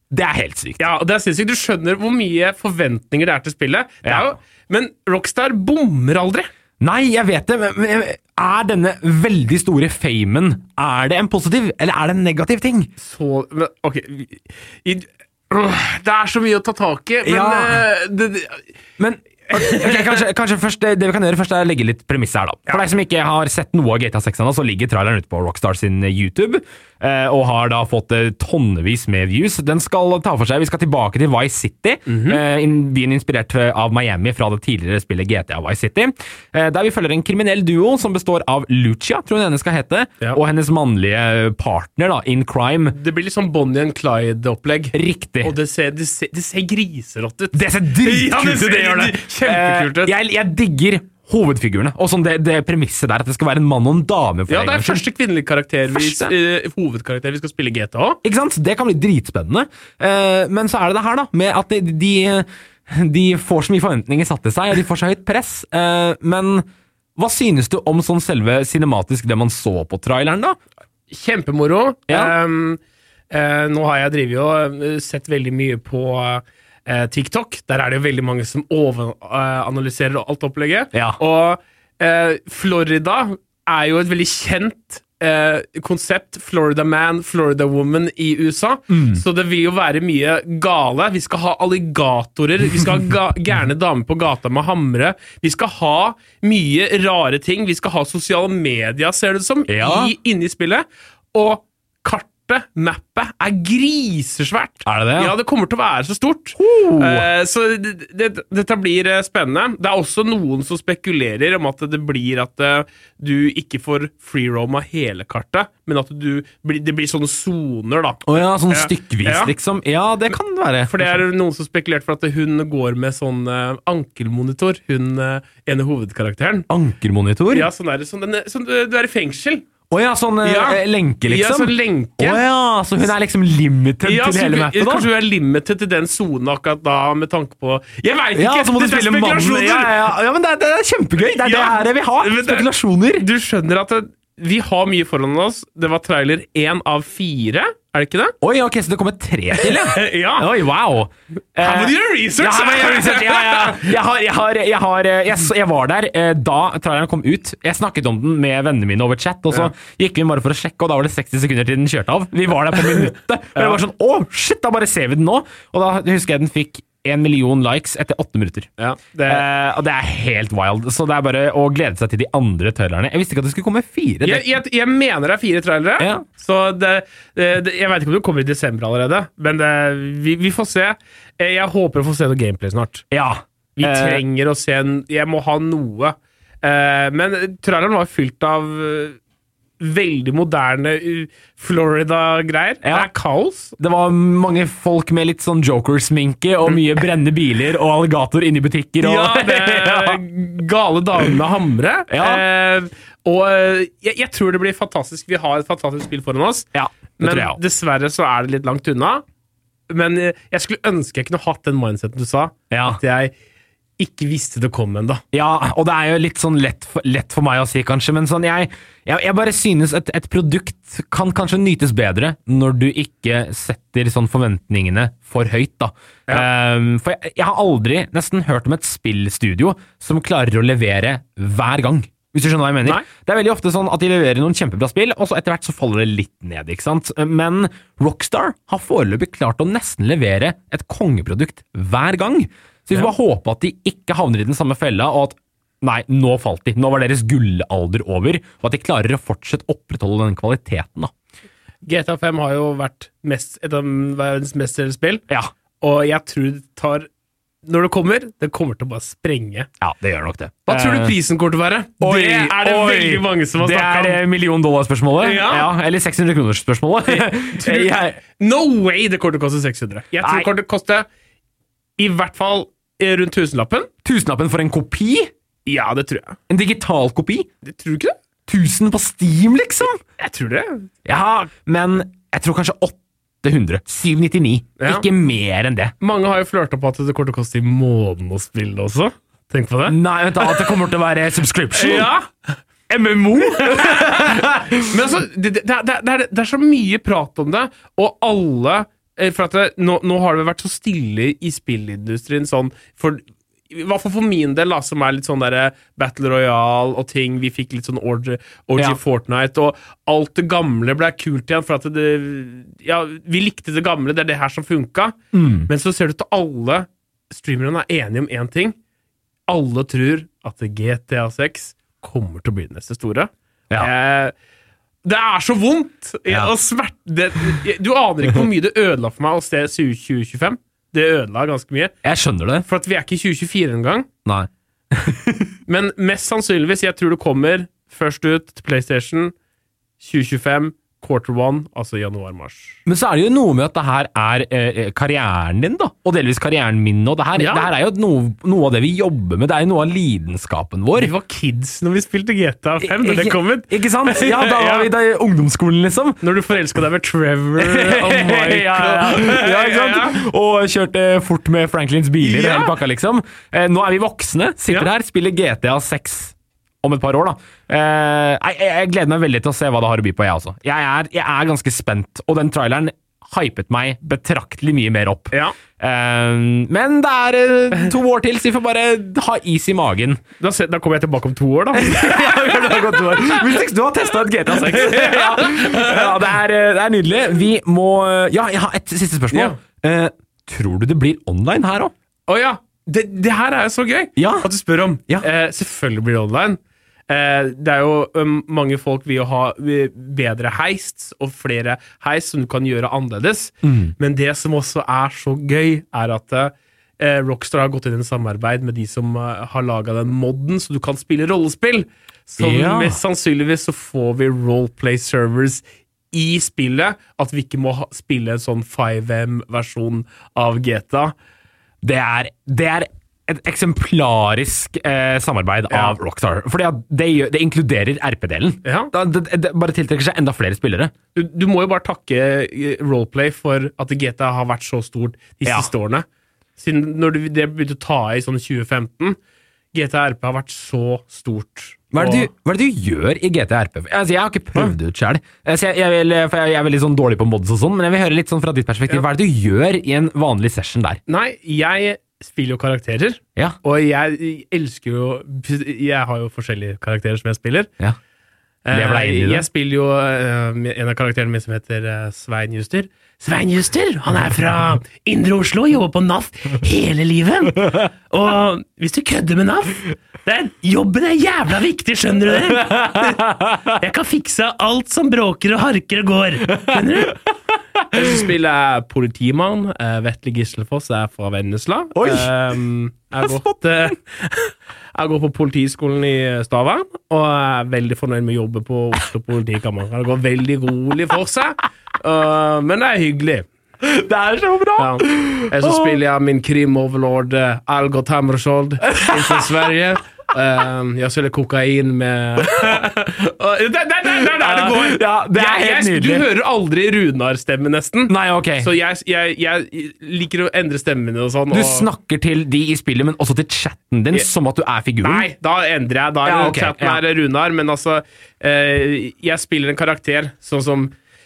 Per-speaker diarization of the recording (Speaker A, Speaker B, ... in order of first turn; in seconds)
Speaker A: 0.1-0.8, 4.0-4.3, 6.8-12.9, 17.2-17.9, 19.0-43.0, 44.9-45.5, 47.5-55.0, 55.9-56.3, 58.2-66.7, 67.2-70.6, 80.9-81.2, 88.9-89.2, 99.7-100.1, 104.9-105.3, 106.6-107.3, 118.3-121.2, 126.7-127.7, 129.9-135.1, 138.4-143.2, 148.4-168.7, 169.3-174.5, 176.0-176.2, 183.1-184.2, 192.8-193.1, 193.8-200.2, 202.1-202.4, 206.7-207.6, 212.7-213.0, 215.3-251.1, 259.8-261.1, 262.0-268.2, 270.2-270.5, 274.1-275.3, 276.5-277.5, 278.5-280.0, 281.1-285.9, 289.9-292.1, 292.9-294.9, 315.3-315.7, 332.0-332.6, 334.2-335.6, 342.9-351.1, 352.8-356.2, 357.6-380.2, 381.7-391.9, 394.2-394.5, 403.6-403.9, 412.4-413.0, 421.8-430.9, 435.4-435.7, 441.9-451.0, 458.7-459.5, 472.5-473.7, 476.5-476.9, 482.0-482.3, 483.2-483.6, 493.8-496.0, 498.9-499.6, 504.3-506.2, 508.1-508.7, 511.5-515.3, 516.3-517.0
Speaker B: 0.8-6.5, 13.0-18.7, 19.5-20.0, 32.1-32.4, 42.9-50.1, 54.5-58.2, 71.1-119.5, 120.9-126.7, 127.5-129.7, 130.4-132.4, 134.0-140.1, 141.2-148.3, 149.6-150.5, 151.6-153.9, 168.8-169.4, 174.2-183.1, 183.8-189.2, 189.8-193.8, 199.0-206.7, 207.2-209.2, 209.9-213.3, 214.0-215.2, 251.8-255.2, 255.8-257.1, 257.6-259.7, 260.7-264.2, 265.2-265.7, 267.1-271.1, 272.0-273.9, 275.7-276.4, 277.6-278.2, 280.2-280.9, 284.8-285.1, 286.0-290.7, 291.8-292.6, 293.6-318.8, 319.5-324.3, 325.1-331.9, 332.6-334.1, 335.7-339.3, 340.0-342.8, 347.4-347.7, 351.0-354.9, 356.2-360.2, 362.2-362.7, 380.4-383.3, 384.7-386.2, 389.3-389.6, 392.3-421.1, 425.7-426.0, 428.6-428.9, 431.1-436.1, 436.6-439.2, 439.7-442.3, 451.1-457.7, 458.6-477.2, 477.9-493.5, 494.8-511.9, 515.0-521.0